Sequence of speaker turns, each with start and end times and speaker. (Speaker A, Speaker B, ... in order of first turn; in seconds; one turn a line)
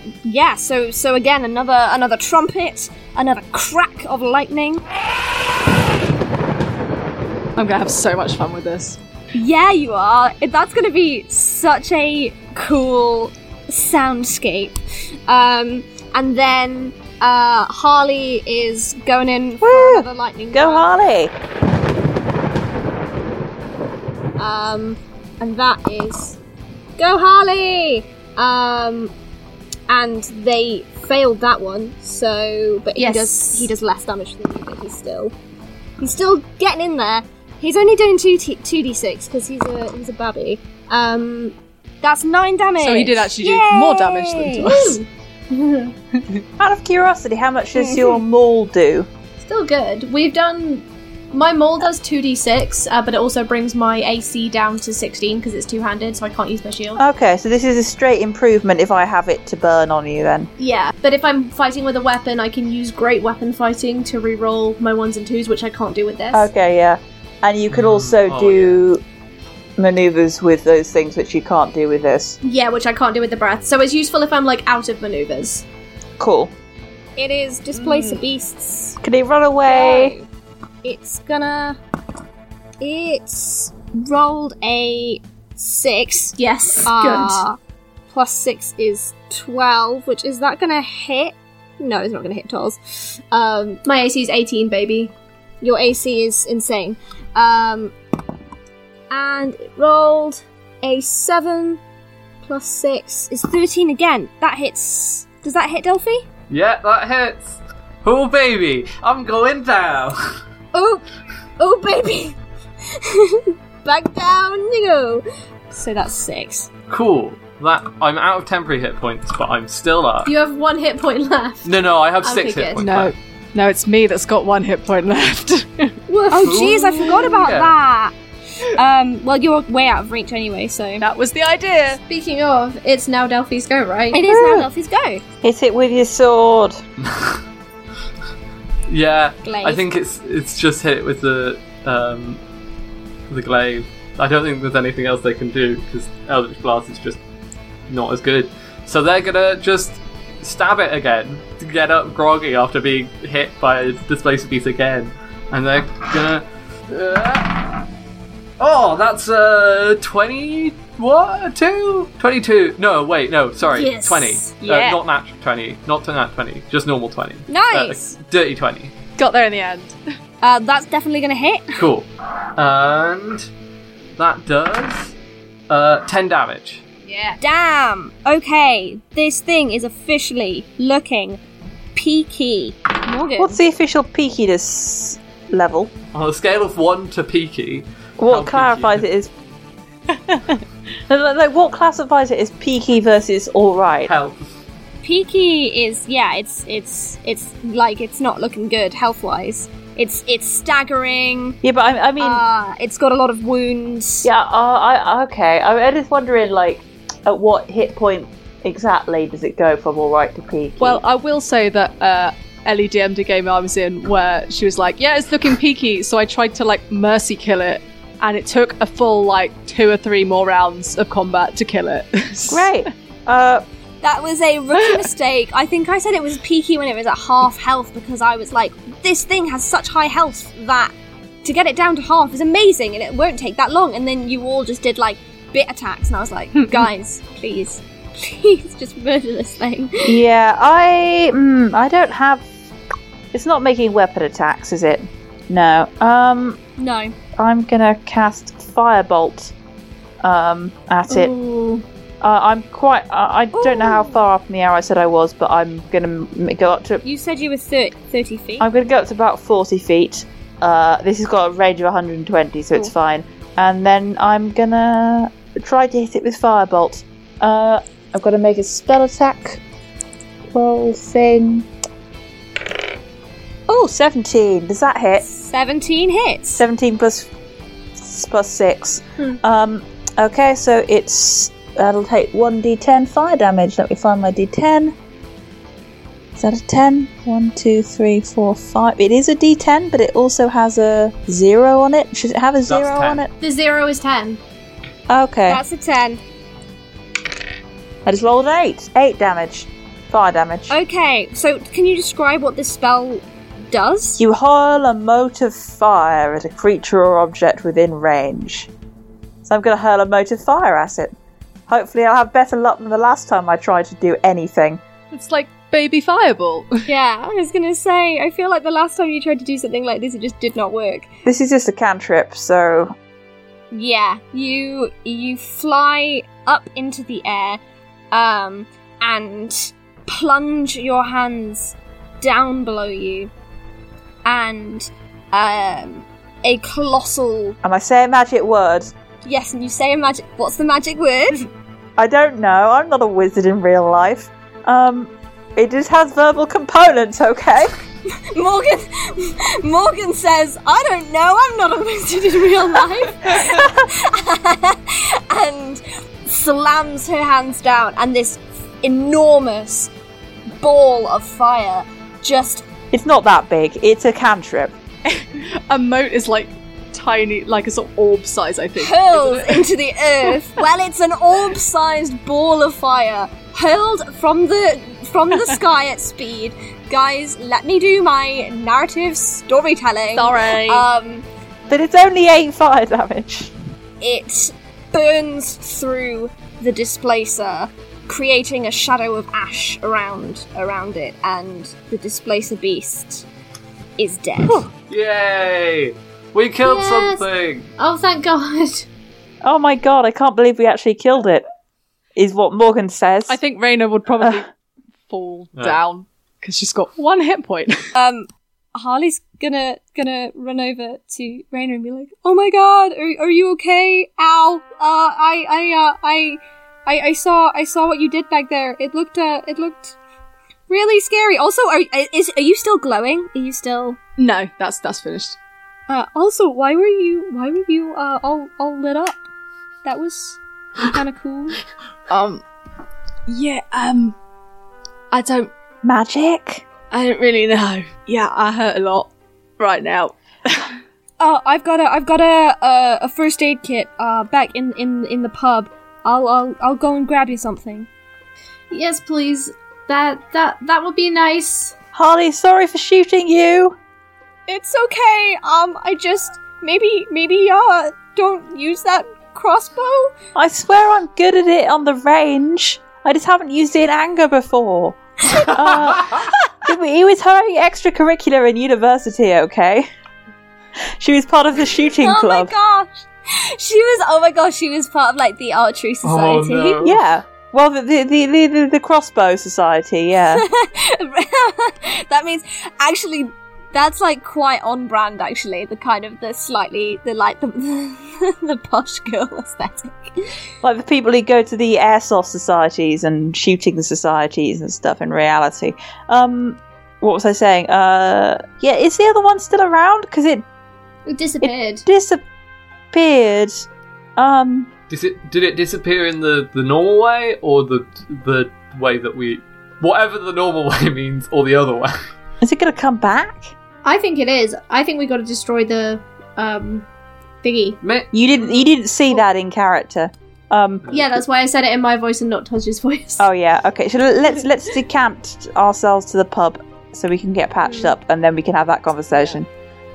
Speaker A: 0.2-4.8
Speaker B: 7.5-9.0
Speaker A: 9.3-20.9
Speaker C: 19.6-21.3
Speaker A: 24.4-26.4
Speaker A: 27.0-29.1
Speaker A: 29.9-35.3
Speaker D: 33.0-33.7
Speaker A: 36.0-44.8
Speaker B: 42.8-45.0
Speaker D: 44.7-45.9
Speaker C: 46.6-49.1
Speaker A: 47.7-48.2
Speaker D: 49.4-57.0
Speaker C: 57.0-60.5
Speaker D: 60.6-66.5
Speaker C: 66.3-69.0
Speaker E: 67.7-68.8
Speaker C: 69.8-72.4
Speaker D: 72.4-75.6
Speaker C: 76.2-76.5
Speaker A: 77.2-79.0
Speaker D: 77.7-78.2
Speaker C: 79.0-80.2
Speaker A: 79.7-80.3
Speaker A: 80.8-81.8
Speaker A: 82.8-87.6
Speaker D: 86.4-87.4
Speaker A: 88.1-93.8
Speaker D: 93.8-95.1
Speaker A: 95.6-97.9
Speaker A: 99.1-101.8
Speaker A: 102.4-106.2
Speaker E: 106.5-110.3
Speaker A: 110.7-111.0
Speaker A: 111.6-116.7
Speaker E: 116.9-120.3
Speaker D: 120.2-121.7
Speaker E: 121.6-123.1
Speaker D: 122.2-122.8
Speaker B: 122.8-126.0
Speaker D: 126.1-127.2
Speaker A: 126.3-131.0
Speaker E: 126.4-127.7
Speaker B: 131.0-132.0
Speaker D: 132.1-134.2
Speaker A: 134.1-135.2
Speaker C: 134.3-134.7
Speaker C: 135.4-136.8
Speaker E: 137.0-137.4
Speaker E: 138.9-142.4
Speaker A: 139.4-139.8
Speaker E: 143.3-147.2
Speaker E: 147.9-157.8
Speaker E: 158.6-168.9
Speaker D: 163.6-164.5
Speaker A: 167.5-168.2
Speaker B: 169.2-170.0
Speaker A: 170.4-171.8
Speaker E: 171.8-173.5
Speaker E: 174.2-175.1
Speaker E: 175.7-176.8
Speaker D: 177.1-177.4
Speaker A: 177.4-181.4
Speaker A: 181.9-183.6
Speaker C: 183.4-185.9
Speaker E: 186.1-189.0
Speaker C: 188.2-189.3
Speaker C: 191.1-194.1
Speaker E: 194.1-194.5
Speaker A: 195.0-201.6
Speaker C: 201.6-202.4
Speaker A: 202.2-204.3
Speaker C: 204.2-211.0
Speaker B: 210.8-222.7
Speaker C: 222.5-223.6
Speaker A: 224.0-240.2
Speaker C: 240.0-242.5
Speaker C: 243.3-246.6
Speaker A: 246.8-247.1
Speaker C: 247.4-249.5
Speaker C: 250.2-251.3
Speaker D: 251.1-251.8
Speaker C: 252.2-257.0
Speaker A: 253.5-254.2
Speaker A: 257.0-258.7
Speaker C: 258.6-269.6
Speaker C: 270.5-271.7
Speaker C: 273.7-275.3
Speaker A: 275.2-276.5
Speaker C: 276.4-277.3
Speaker C: 278.0-284.9
Speaker C: 286.4-293.3
Speaker E: 292.6-293.2
Speaker D: 293.4-294.4
Speaker C: 295.1-295.6
Speaker A: 295.5-296.2
Speaker C: 298.1-300.7
Speaker A: 300.7-304.2
Speaker C: 304.2-308.7
Speaker C: 309.4-311.1
Speaker C: 311.7-314.8
Speaker B: 315.1-316.9
Speaker A: 316.9-321.1
Speaker C: 321.2-322.9
Speaker A: 323.7-327.6
Speaker A: 328.1-333.3
Speaker A: 334.2-337.6
Speaker C: 337.6-338.9
Speaker A: 339.2-341.5
Speaker C: 342.0-347.7
Speaker A: 348.1-359.9
Speaker A: 360.6-362.6
Speaker C: 362.9-364.8
Speaker B: 365.1-369.7
Speaker A: 368.8-381.2
Speaker B: 380.1-380.9
Speaker C: 381.7-383.5
Speaker A: 384.0-393.3
Speaker A: 394.0-394.6
Speaker E: 394.9-397.7
Speaker D: 396.6-397.2
Speaker D: 397.8-398.9
Speaker C: 399.4-401.4
Speaker C: 402.1-403.4
Speaker B: 403.3-404.5
Speaker B: 405.1-407.8
Speaker A: 407.9-420.0
Speaker A: 420.7-424.0
Speaker B: 424.2-425.4
Speaker A: 425.9-429.2
Speaker A: 429.8-431.6
Speaker B: 432.1-432.4
Speaker B: 433.3-434.1
Speaker B: 435.1-435.5
Speaker C: 435.8-436.6
Speaker B: 436.9-440.7
Speaker A: 441.2-447.9
Speaker D: 448.7-451.8
Speaker C: 451.9-453.8
Speaker A: 454.5-460.1
Speaker C: 460.3-469.9
Speaker C: 471.0-472.5
Speaker A: 472.0-476.8
Speaker E: 476.0-477.0
Speaker C: 476.8-480.4
Speaker A: 480.3-490.3
Speaker C: 490.6-500.4
Speaker D: 501.1-501.8
Speaker C: 501.4-502.2
Speaker C: 502.9-504.7
Speaker E: 504.9-512.0
Speaker C: 512.4-513.5
Speaker D: 513.8-516.9
Speaker D: 517.4-517.8
Speaker E: 517.8-518.1
Speaker C: 518.1-520.9
Speaker D: 520.9-523.2
Speaker C: 523.2-529.5